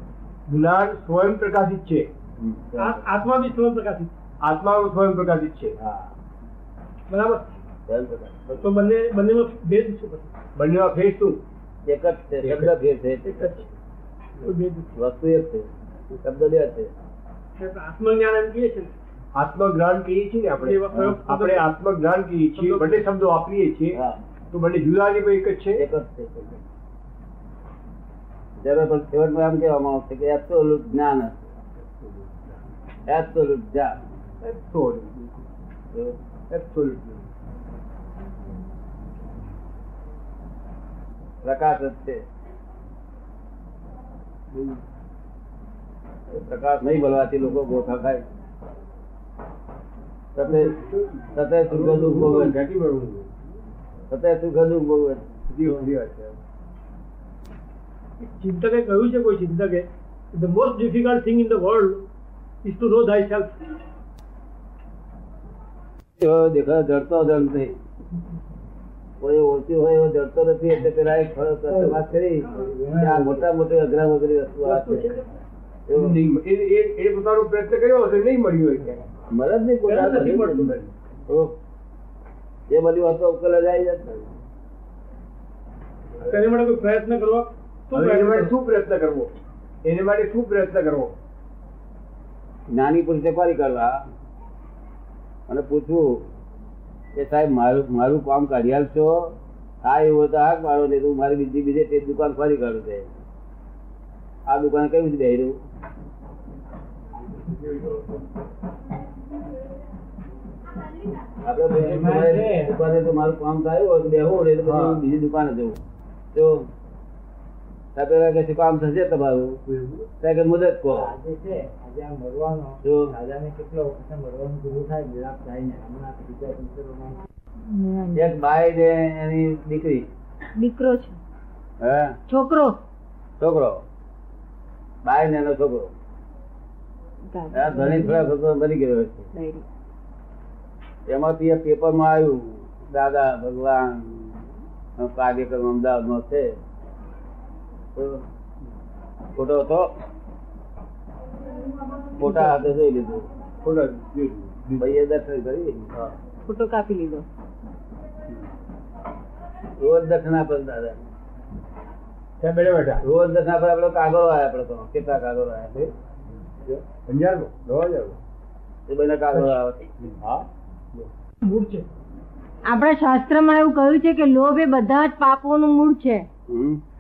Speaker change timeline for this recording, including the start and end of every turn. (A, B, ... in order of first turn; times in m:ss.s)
0:00.5-0:02.1 A
0:02.4-0:03.0 B
0:02.8-0:04.1 C
0:04.4-0:05.8 A
0:05.8-0:06.1 B
0:07.1-0:07.5 C
0:07.9-0:08.8 B
0:08.6-0:10.3 C
0:10.6-0:11.4 A
0:11.9-0:13.4 B
0:12.4-0:12.7 A
0:13.2-0:13.7 C
0:14.4-0:14.9 C
0:15.0-0:16.9 B
0:17.6-0:18.9 C
0:19.3-0:24.0 A
0:20.6-0:21.7 C
0:22.6-0:23.1 C
0:23.9-0:24.2 B
0:24.5-0:25.8 A
0:25.8-0:26.6 B
0:28.6-0:31.4 B
0:33.1-0:34.0 B
0:34.4-0:35.4 A
0:36.5-0:37.2 A
0:41.4-0:42.2 B
0:44.5-0:44.8 A
0:46.3-0:48.2 B
0:50.4-0:50.7 B
0:50.5-0:53.3 A
0:51.4-0:52.6 B
0:54.1-0:55.8 B
0:55.5-0:56.4 A
0:58.2-1:02.0 C
1:02.6-1:03.8 C
1:06.2-1:07.8 B
1:09.2-1:15.1 B
1:11.7-1:13.4 D
1:14.6-1:15.3 C
1:15.9-1:16.2 B
1:16.0-1:19.0 A
1:19.3-1:20.6 B
1:19.9-1:20.8 C
1:20.4-1:20.9 A
1:21.3-1:21.6 B
1:22.7-1:24.3 B
1:26.2-1:28.5 C
1:27.9-1:29.3 A
1:29.8-1:31.1 A
1:32.7-1:34.1 B
1:35.5-1:36.3 B
1:37.2-1:43.1 B
1:44.5-1:45.6 B
1:51.4-1:55.8 B
1:51.7-1:52.8 D
1:54.6-1:55.0 A
1:56.3-1:56.7 B
1:58.0-1:59.6 B
1:59.7-2:00.1 A
2:00.2-2:01.1 B
2:00.9-2:07.2 D
2:02.8-2:03.2 B
2:07.7-2:08.3 E
2:08.2-2:10.1 B
2:10.6-2:11.2 E
2:11.8-2:12.2 B
2:12.3-2:12.8 E
2:13.4-2:13.8 B
2:15.0-2:15.9 B
2:17.3-2:18.2 E
2:17.5-2:19.3 B
2:19.3-2:19.6 E
2:21.1-2:24.5 B
2:25.0-2:26.6 B
2:28.0-2:28.2 B
2:29.4-2:29.9 B
2:32.2-2:33.2 B
2:33.6-2:34.9 A
2:34.8-2:35.9 B
2:36.5-2:37.3 E
2:39.8-2:41.0 B
2:42.4-2:43.0 A
2:43.0-2:45.9 B
2:46.7-2:48.2 A
2:48.9-2:49.9 B
2:50.2-2:51.1 A
2:51.4-2:51.9 C
2:52.7-2:56.3 E
2:56.5-2:56.8 B